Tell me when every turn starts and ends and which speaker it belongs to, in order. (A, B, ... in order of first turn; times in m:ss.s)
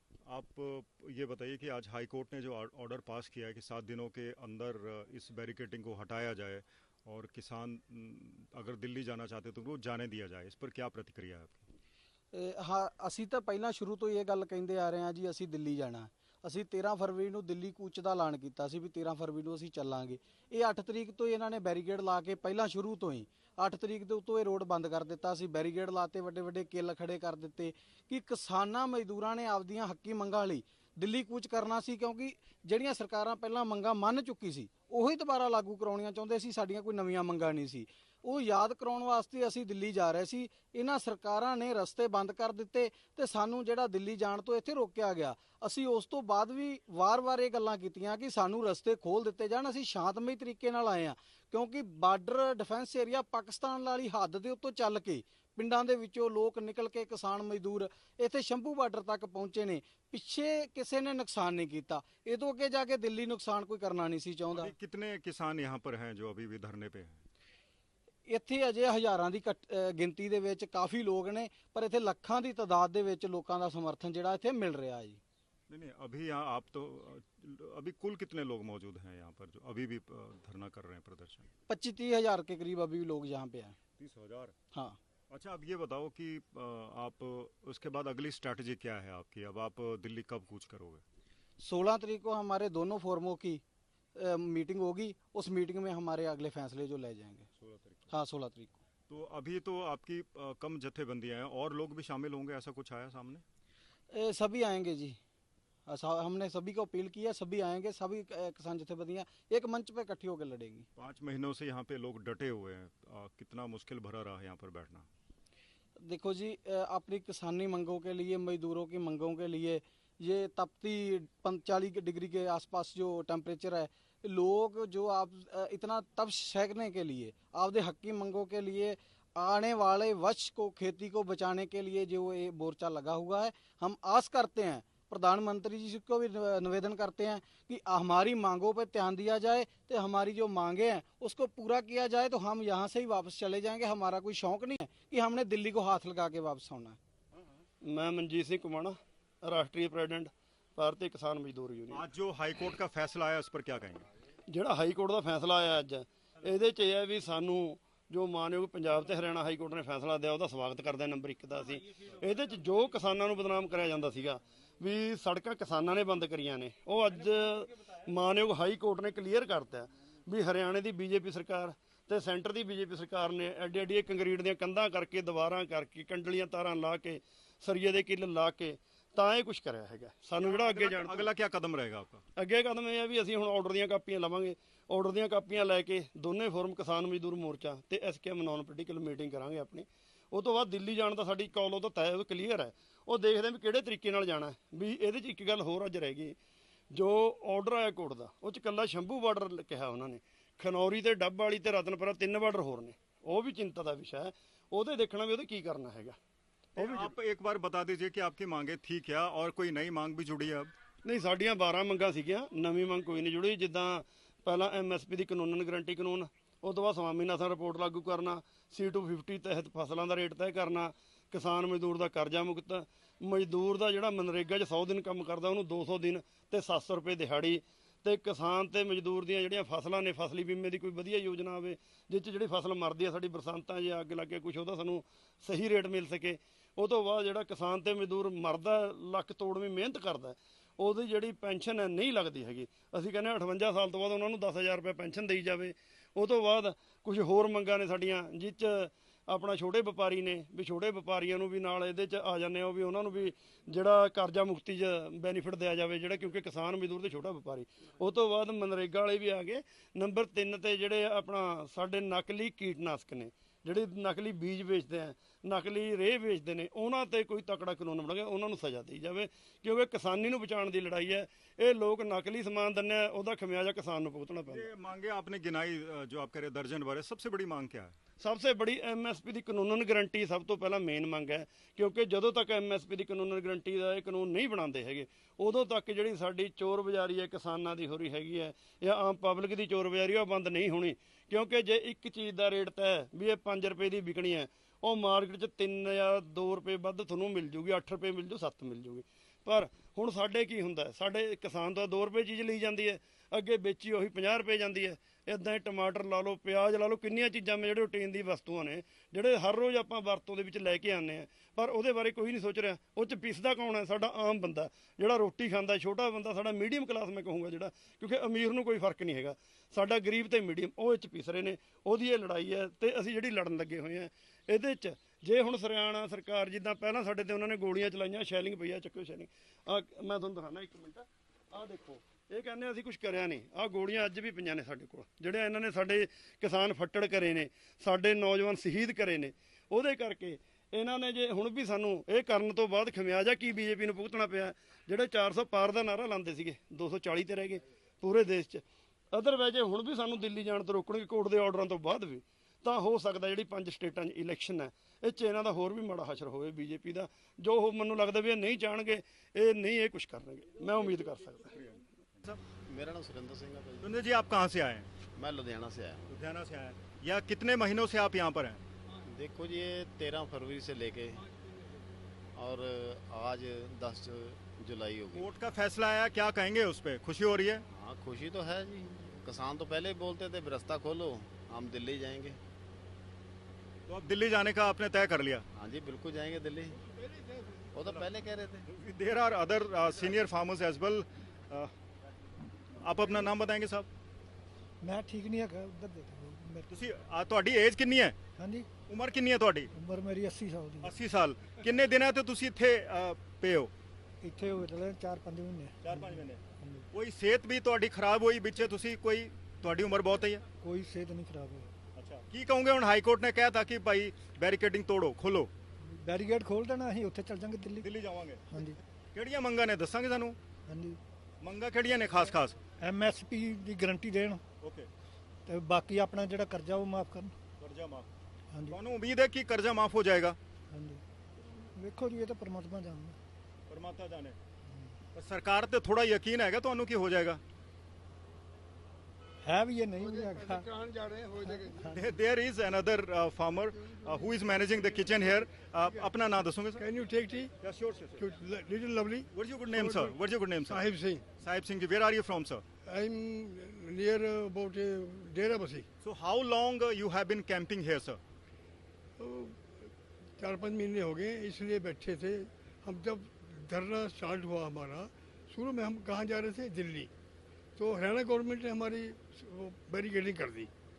0:00.3-0:11.6 A
0:12.3-1:04.7 B
1:04.5-1:07.2 A
1:08.3-1:15.2 B
1:15.7-1:21.5 A
1:21.7-1:23.8 B
1:24.0-1:24.5 A
1:25.3-1:31.0 A
1:31.6-1:33.6 B
1:34.1-1:37.5 B
1:37.6-1:38.0 A
1:38.1-1:38.8 B
1:39.1-1:43.4 A
1:44.1-1:45.2 B
1:45.8-1:50.9 B
1:51.0-1:55.1 A
1:56.0-2:27.0 B
2:27.8-2:32.0 C
2:31.9-2:34.1 A
2:34.5-3:01.3 C
3:00.4-3:02.2 A
3:02.4-3:16.4 C
3:16.9-3:26.2 C
3:26.8-3:30.7 A
3:26.8-3:27.1 C
3:31.0-4:34.7 C
4:34.5-4:37.9 A
4:38.2-6:01.6 C
6:01.5-6:02.4 A
6:02.6-6:04.0 D
6:03.8-6:04.9 A
6:05.2-6:06.0 D
6:06.1-6:08.6 A
6:09.0-6:11.2 D
6:12.4-6:15.3 D
6:15.1-6:17.6 A
6:17.7-6:22.4 D
6:23.9-6:25.4 A
6:25.5-6:26.8 D
6:27.7-6:28.7 D
6:28.7-6:31.7 A
6:32.8-6:33.9 A
6:34.8-6:36.6 E
6:36.7-6:38.2 A
6:38.4-6:38.7 E
6:38.8-6:39.7 A
6:39.7-6:40.9 E
6:40.8-6:43.7 A
6:44.2-6:46.8 E
6:45.8-6:50.4 A
6:50.6-6:51.7 E
6:51.9-6:55.5 A
6:55.9-6:57.9 E
6:57.8-6:58.6 A
6:58.5-6:58.8 E
6:59.1-7:00.4 A
7:00.7-7:01.0 E
7:01.4-7:02.6 A
7:02.8-7:04.4 E
7:04.6-7:04.9 A
7:05.4-7:07.3 E
7:07.6-7:08.1 A
7:08.5-7:08.8 E
7:08.7-7:10.4 A
7:10.7-7:11.0 E
7:11.7-7:13.2 E
7:13.7-7:14.4 A
7:15.1-7:17.4 A
7:19.4-7:20.7 E
7:20.0-7:21.9 F
7:21.4-7:22.0 E
7:21.9-7:26.8 A
7:26.8-7:27.5 F
7:27.6-7:28.2 A
7:28.2-7:31.3 F
7:29.3-7:30.8 A
7:31.4-7:32.6 A
7:32.9-7:35.8 F
7:36.0-7:38.2 A
7:39.2-7:39.6 F
7:40.4-7:47.1 F
7:47.8-7:50.7 F